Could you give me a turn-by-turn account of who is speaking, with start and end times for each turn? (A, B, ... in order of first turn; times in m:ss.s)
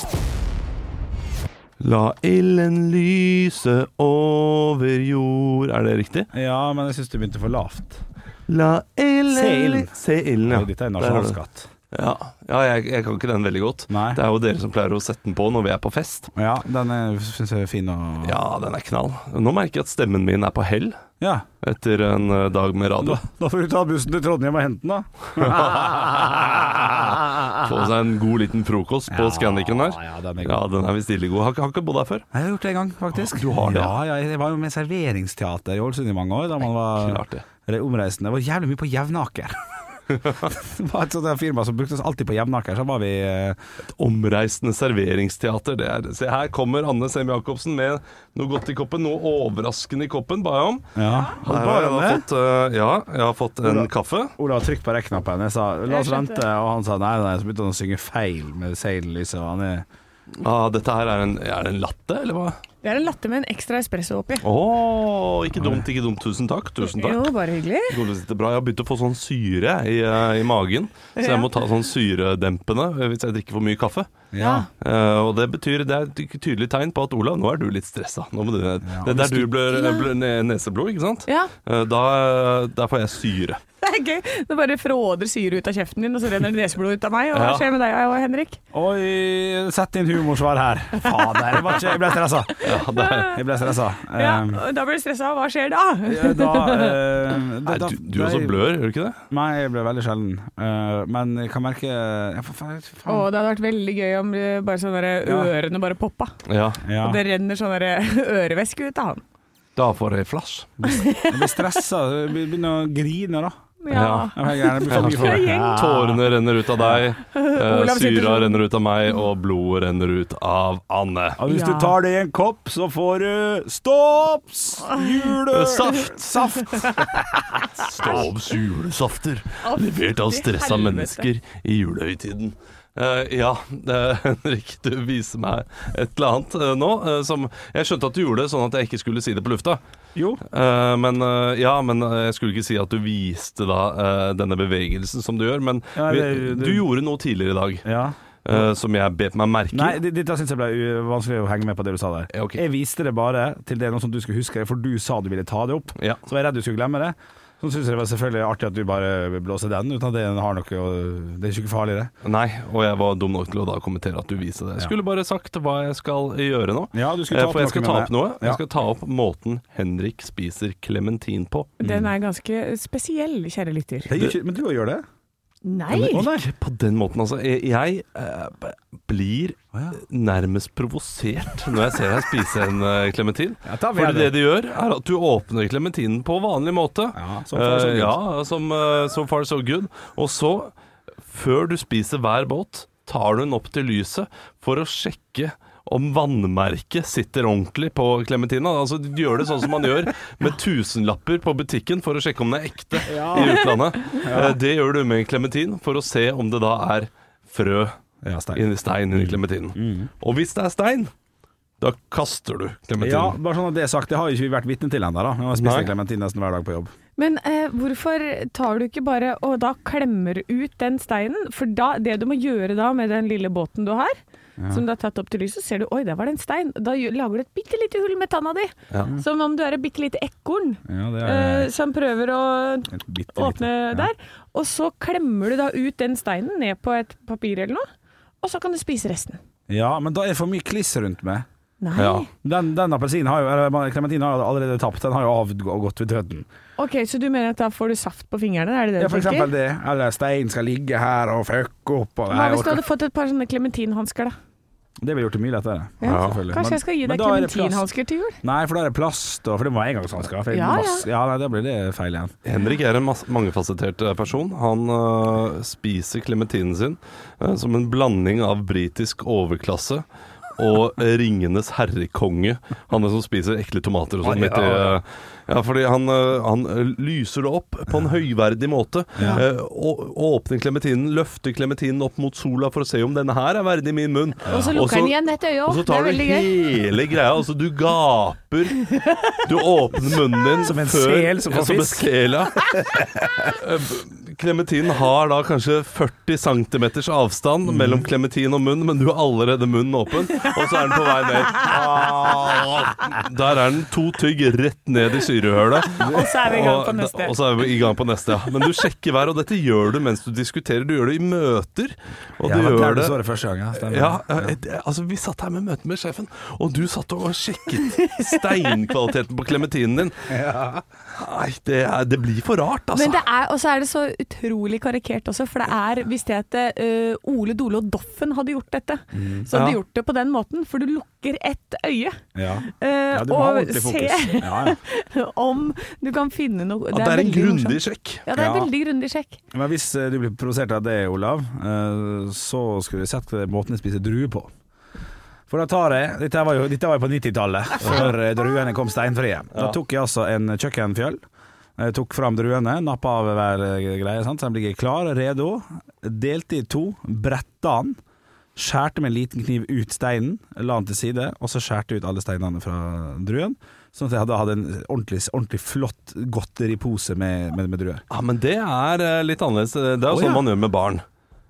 0:01.8-0:06.3 A
0:06.3-0:08.0 B
0:08.5-0:11.4 A
0:09.3-0:09.9 B
0:10.5-0:11.7 B
0:11.9-0:16.3 A
0:13.9-0:14.2 B
0:16.3-0:18.4 B
0:18.2-0:21.0 A
0:21.2-0:21.5 B
0:21.6-0:23.2 A
0:23.0-0:27.5 B
0:25.5-0:32.2 A
0:29.1-0:30.6 B
0:32.3-0:39.6 B
0:33.3-0:33.9 A
0:37.0-0:37.4 A
0:40.1-0:43.6 B
0:40.2-0:40.5 A
0:43.8-0:54.3 A
0:50.9-0:52.2 B
0:53.6-0:59.8 B
0:55.9-0:56.4 C
1:00.4-1:02.6 A
1:02.8-1:04.4 C
1:04.4-1:07.3 A
1:05.6-1:05.8 B
1:06.8-1:08.0 C
1:07.9-1:14.1 A
1:11.2-1:11.5 C
1:14.3-1:14.6 B
1:14.4-1:14.7 C
1:14.7-1:23.6 A
1:18.8-1:19.5 B
1:19.7-1:20.1 C
1:23.8-1:28.6 C
1:27.3-1:27.7 A
1:28.7-1:32.6 B
1:32.6-1:33.4 A
1:32.7-1:33.4 C
1:33.3-1:34.6 B
1:34.1-1:37.1 C
1:36.0-1:38.6 B
1:37.6-1:39.2 A
1:39.3-1:43.3 B
1:43.0-1:46.4 C
1:45.2-1:45.5 B
1:46.4-1:46.8 A
1:46.8-1:47.2 B
1:47.0-1:49.2 C
1:49.8-1:50.7 A
1:50.8-1:53.5 B
1:50.8-1:51.6 C
1:53.8-1:56.0 C
1:53.9-1:54.3 A
1:54.3-1:57.1 B
1:54.9-2:01.4 A
1:57.2-1:58.6 C
2:01.4-2:07.4 B
2:01.5-2:02.0 C
2:05.5-2:06.8 A
2:07.8-2:19.8 A
2:07.9-2:08.2 C
2:09.6-2:11.3 C
2:20.1-2:20.4 B
2:20.5-2:27.8 A
2:25.9-2:26.8 B
2:27.8-2:28.7 B
2:28.4-2:30.0 A
2:29.7-2:42.1 B
2:32.3-2:32.6 A
2:42.2-2:51.7 A
2:46.9-2:48.6 B
2:51.8-2:54.1 C
2:51.8-2:52.1 B
2:54.0-2:55.0 B
2:55.6-2:56.3 C
2:55.9-2:56.5 B
2:56.2-3:27.9 A
3:03.6-3:04.3 B
3:07.1-3:08.2 B
3:23.0-3:24.6 B
3:23.3-3:24.2 C
3:28.2-3:30.1 B
3:28.5-3:31.1 A
3:31.8-3:33.4 A
3:33.0-3:36.9 B
3:35.6-3:35.9 A
3:37.2-3:44.2 C
3:44.6-3:44.8 B
3:44.7-3:57.8 C
3:50.8-3:51.7 B
3:52.9-3:54.1 B
3:58.4-3:59.4 C
3:59.7-4:01.4 B
4:01.8-4:02.3 C
4:02.0-4:02.2 A
4:02.4-4:06.5 B
4:06.8-4:09.5 C
4:09.0-4:12.8 B
4:12.3-4:14.3 C
4:15.0-4:17.8 B
4:16.0-4:18.4 C
4:16.0-4:16.4 A
4:18.4-4:22.4 B
4:20.5-4:21.0 C
4:22.4-4:30.0 A
4:30.6-4:52.6 A
4:34.2-4:35.0 B
4:39.2-4:39.4 B
4:44.4-4:44.8 B
4:44.4-4:46.5 C
4:48.8-4:49.4 C
4:50.6-4:52.1 B
4:52.6-4:53.5 B
4:53.4-5:13.2 A
4:57.7-4:58.0 B
5:01.6-5:02.6 B
5:05.9-5:07.4 C
5:06.0-5:06.3 B
5:12.4-5:14.6 B
5:13.7-5:20.3 A
5:17.8-5:18.6 C
5:20.3-5:20.8 B
5:21.2-5:23.2 A
5:22.9-5:39.4 C
5:29.1-5:29.5 B
5:29.5-5:29.8 A
5:32.3-5:34.8 B
5:36.9-5:38.2 A
5:38.3-5:38.7 B
5:39.5-5:44.5 B
5:45.5-5:51.2 B
5:47.8-5:48.1 A
5:51.8-5:58.0 B
5:58.6-6:08.0 B
6:08.1-6:11.0 A
6:10.1-6:10.4 B